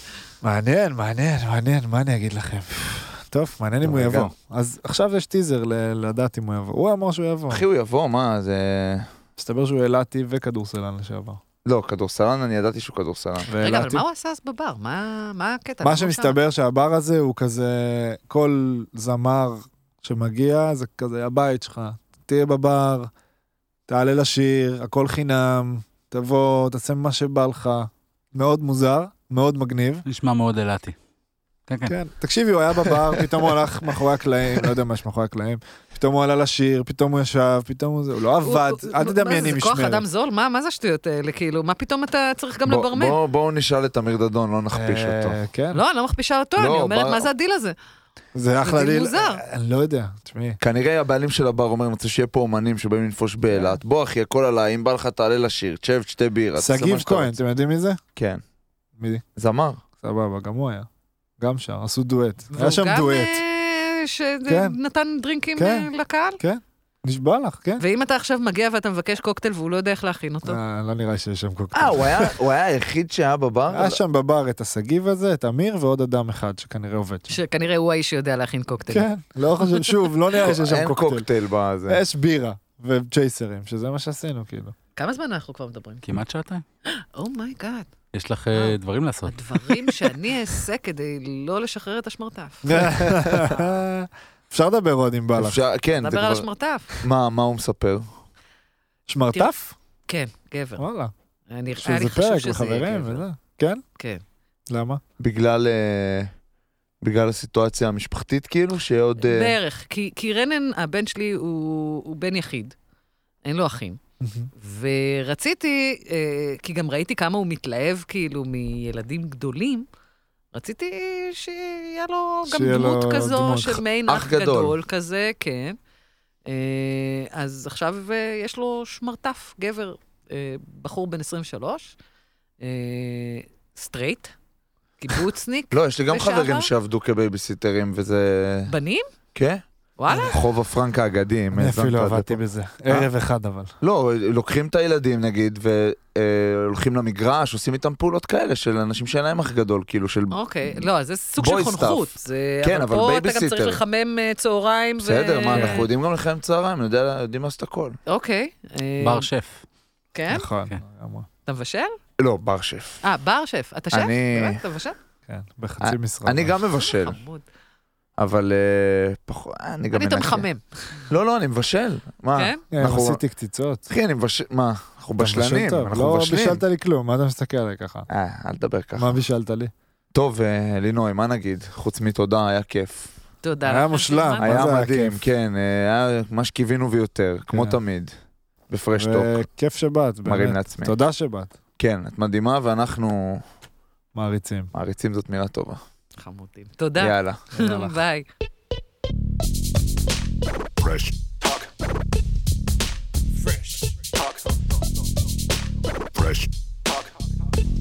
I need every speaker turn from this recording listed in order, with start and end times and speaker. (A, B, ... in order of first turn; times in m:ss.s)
0:00.4-0:07.6 A
0:03.8-0:04.3 B
0:07.5-0:09.1 B
0:09.4-0:11.4 A
0:11.6-0:13.5 B
0:13.5-0:14.0 A
0:13.6-0:16.4 C
0:15.8-0:23.1 A
0:23.9-0:30.0 A
0:30.0-0:31.0 D
0:31.7-0:32.0 D
0:31.9-0:40.0 A
0:32.8-0:33.5 D
0:38.4-0:43.2 C
0:42.7-0:45.4 B
0:44.7-0:45.8 A
0:45.7-0:47.8 C
0:46.6-0:47.3 B
0:48.4-0:50.6 A
0:48.6-0:49.4 C
0:50.6-0:57.4 B
0:56.6-0:58.0 A
0:58.2-0:58.4 B
0:59.0-0:59.2 A
0:59.4-0:59.8 B
1:00.0-1:00.9 A
1:01.4-1:03.4 A
1:02.5-1:06.4 C
1:04.5-1:04.8 A
1:05.6-1:05.9 A
1:06.4-1:07.8 A
1:07.8-1:10.6 C
1:10.4-1:12.3 A
1:11.7-1:14.0 B
1:13.7-1:17.4 A
1:17.3-1:19.1 C
1:18.9-1:21.3 A
1:19.7-1:20.0 C
1:20.4-1:22.0 B
1:21.9-1:24.8 A
1:25.0-1:26.2 C
1:26.1-1:26.6 D
1:26.9-1:27.9 C
1:28.1-1:29.9 D
1:28.5-1:33.6 C
1:32.6-1:35.6 A
1:32.8-1:33.5 B
1:35.4-1:36.5 B
1:36.0-1:37.0 C
1:37.0-1:38.2 B
1:39.1-1:39.8 A
1:40.1-1:40.8 C
1:40.8-1:41.1 A
1:41.5-1:43.2 C
1:41.8-1:43.8 A
1:44.7-1:45.0 A
1:45.2-1:46.3 B
1:47.0-1:49.6 B
1:49.2-1:52.8 C
1:53.4-1:54.0 C
1:54.2-1:54.5 A
1:54.6-1:59.9 C
2:00.5-2:05.8 C
2:02.5-2:03.8 A
2:04.1-2:04.8 B
2:06.5-2:12.0 C
2:12.6-2:14.3 C
2:15.0-2:16.7 C
2:15.7-2:18.7 B
2:18.7-2:19.1 C
2:19.3-2:23.1 B
2:20.0-2:20.4 C
2:20.1-2:20.3 A
2:21.5-2:23.7 A
2:23.8-2:30.8 B
2:30.3-2:35.9 C
2:31.4-2:33.8 B
2:35.0-2:38.0 B
2:35.6-2:35.9 D
2:38.1-2:39.3 C
2:39.0-2:39.6 D
2:40.1-2:40.5 C
2:40.3-2:41.3 A
2:41.5-2:42.0 C
2:42.2-2:43.0 B
2:43.0-2:45.0 C
2:43.9-2:44.6 B
2:45.3-2:46.6 A
2:45.8-2:47.2 B
2:46.7-2:47.4 C
2:48.2-2:50.5 B
2:49.9-2:51.1 C
2:51.1-2:53.2 B
2:52.4-2:52.6 C
2:52.7-2:53.9 A
2:53.9-2:56.6 B
2:55.2-2:58.1 A
2:58.1-2:59.1 B
2:59.0-2:59.7 A
3:00.1-3:03.1 B
3:03.4-3:04.4 C
3:03.6-3:05.2 A
3:04.4-3:08.2 B
3:07.5-3:07.8 A
3:08.7-3:09.4 B
3:09.0-3:11.5 A
3:10.2-3:11.0 B
3:11.8-3:13.4 B
3:14.1-3:14.7 A
3:14.7-3:15.8 B
3:16.2-3:18.3 C
3:17.0-3:17.4 B
3:17.6-3:18.0 A